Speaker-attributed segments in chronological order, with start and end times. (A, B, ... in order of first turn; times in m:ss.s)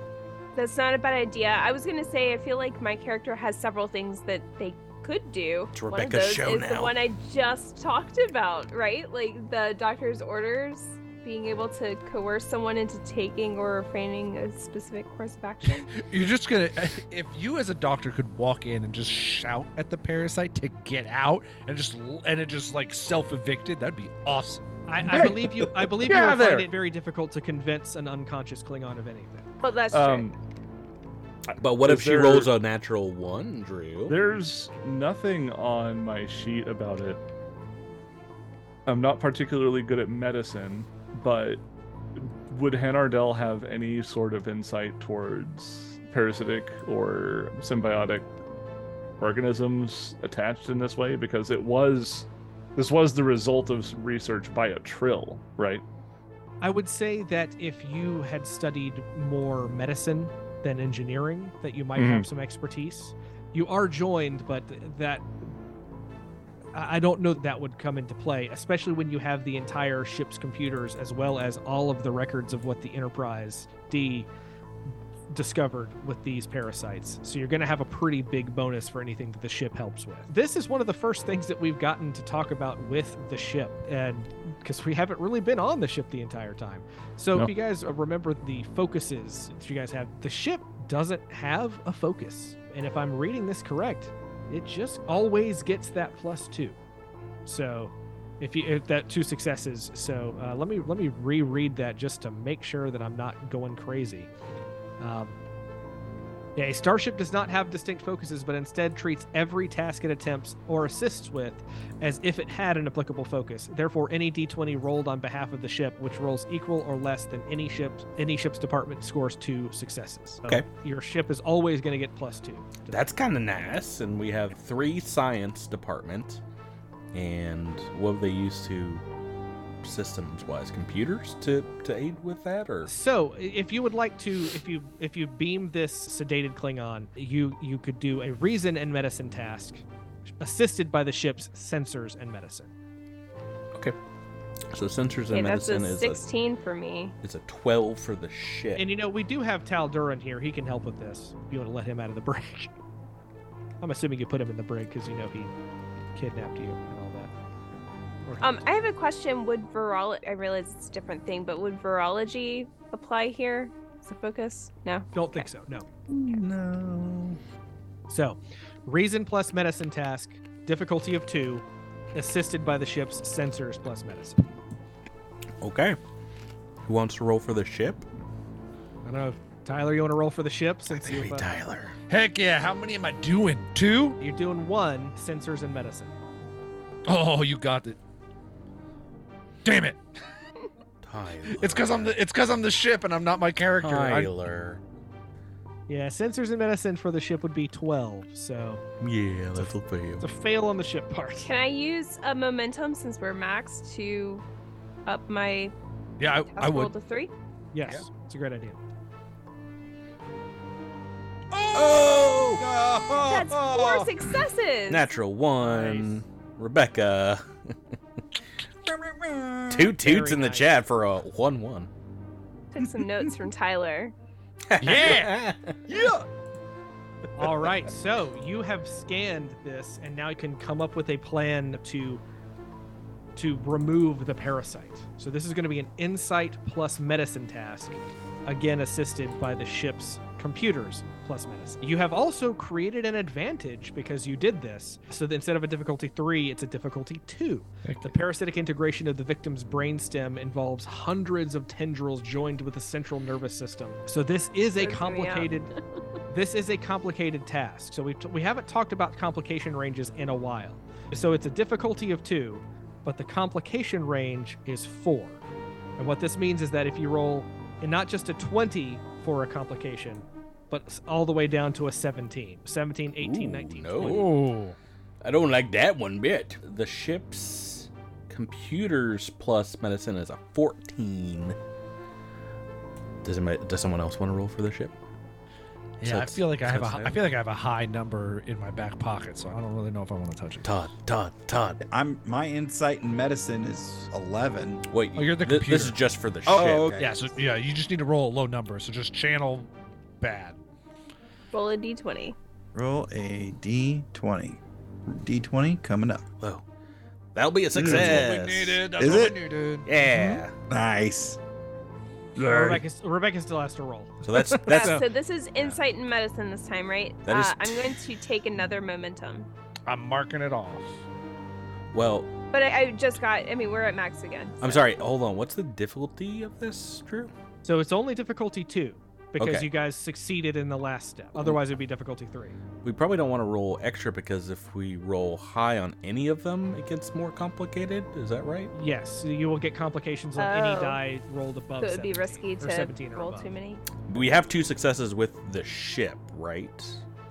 0:00.6-0:15.9 A
0:05.7-0:07.0 B
0:15.7-0:24.7 C
0:24.9-0:29.4 D
0:25.1-0:26.7 E
0:29.6-0:30.3 A
0:29.9-0:30.4 E
0:31.5-0:32.5 E
0:31.6-0:34.2 B
0:34.1-0:37.2 E
0:38.9-0:41.6 E
0:42.2-0:48.3 E
0:49.2-0:55.8 E
0:56.6-1:05.3 D
1:02.0-1:02.3 E
1:06.7-1:14.3 D
1:15.3-1:36.8 D
1:37.5-1:44.3 D
1:45.0-1:45.4 D
1:46.6-2:03.0 D
2:02.9-2:06.4 B
2:07.1-2:09.0 B
2:09.8-2:12.9 B
2:12.8-2:19.8 D
2:20.4-2:22.7 D
2:24.7-2:26.2 B
2:25.3-2:27.2 A
2:27.2-2:28.8 B
2:28.8-2:32.7 D
2:33.8-2:35.5 D
2:36.2-2:37.3 D
2:38.2-2:38.8 D
2:38.4-2:45.5 A
2:45.1-2:45.9 D
2:46.1-2:47.4 B
2:48.1-2:54.4 D
2:55.6-2:56.0 B
2:56.8-2:58.0 B
2:59.0-3:01.5 D
3:00.9-3:02.0 B
3:02.1-3:04.2 C
3:04.2-3:06.2 D
3:07.0-3:08.0 C
3:09.6-3:10.0 C
3:11.0-3:12.1 B
3:11.4-3:14.3 C
3:13.8-3:14.8 B
3:15.9-3:18.8 D
3:19.0-3:20.2 B
3:20.2-3:21.5 D
3:21.4-3:24.4 A
3:25.1-3:25.7 A
3:26.2-3:26.9 C
3:26.5-3:27.3 A
3:27.7-3:28.8 D
3:31.5-3:34.2 F
3:31.7-3:32.6 B
3:33.2-3:35.1 A
3:34.9-3:37.8 B
3:35.6-3:36.1 D
3:38.9-3:40.0 F
3:39.7-3:41.9 B
3:40.0-3:40.8 D
3:42.7-3:44.1 A
3:42.8-3:43.3 F
3:44.7-3:45.8 B
3:44.8-3:45.4 C
3:44.9-3:45.2 D
3:45.9-3:46.2 F
3:47.4-3:52.2 D
3:53.4-4:15.7 D
4:07.8-4:08.1 C
4:14.8-4:15.5 A
4:16.3-4:25.4 D
4:26.0-4:34.3 D
4:33.2-4:34.3 B
4:34.0-4:34.8 C
4:35.2-4:41.6 B
4:43.2-4:45.0 B
4:46.0-4:47.2 B
4:46.0-4:50.8 C
4:50.6-4:51.8 B
4:51.8-4:54.8 F
4:54.9-4:57.2 B
4:55.2-5:00.6 C
4:56.5-4:57.2 F
5:01.5-5:02.4 A
5:02.8-5:06.2 F
5:07.4-5:08.8 B
5:07.8-5:08.4 F
5:07.8-5:09.9 C
5:09.0-5:09.4 F
5:09.9-5:10.5 B
5:10.7-5:11.4 F
5:12.4-5:12.8 F
5:12.5-5:14.2 D
5:14.2-5:15.0 B
5:14.7-5:19.5 A
5:17.2-5:18.0 B
5:19.9-5:20.9 C
5:21.9-5:22.3 B
5:22.5-5:24.8 A
5:24.6-5:27.3 B
5:27.6-5:32.6 D
5:29.4-5:29.7 B
5:32.8-5:38.7 B
5:38.7-5:43.5 D
5:40.4-5:41.0 A
5:41.8-5:43.8 A
5:44.1-5:47.0 B